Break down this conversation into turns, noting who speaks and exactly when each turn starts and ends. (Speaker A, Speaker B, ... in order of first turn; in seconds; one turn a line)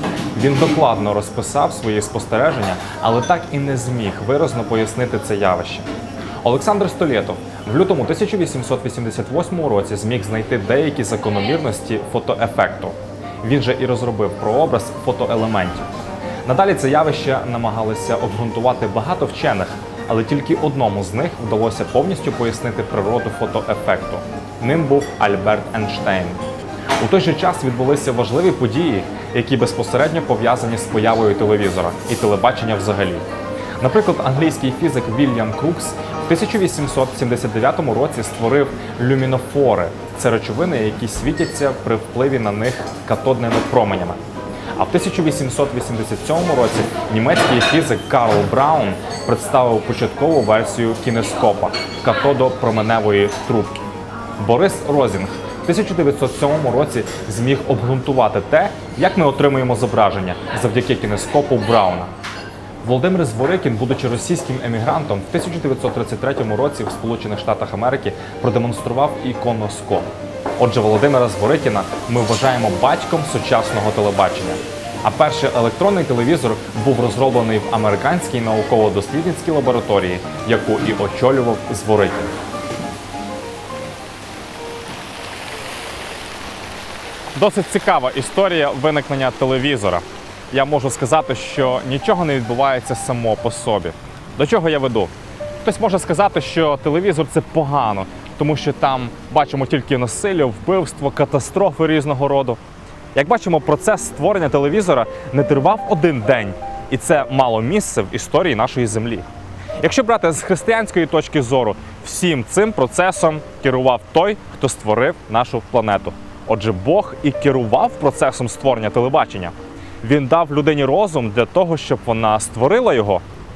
Speaker A: 0.3-5.9
Speaker A: 6.4-15.9
Speaker A: 16.4-26.4
Speaker A: 27.0-33.3
Speaker A: 33.8-44.2
Speaker A: 44.7-53.8
Speaker A: 54.4-62.1
Speaker A: 62.8-82.3
Speaker A: 87.3-95.1
Speaker A: 95.6-102.6
Speaker A: 103.1-109.3
Speaker A: 109.8-123.2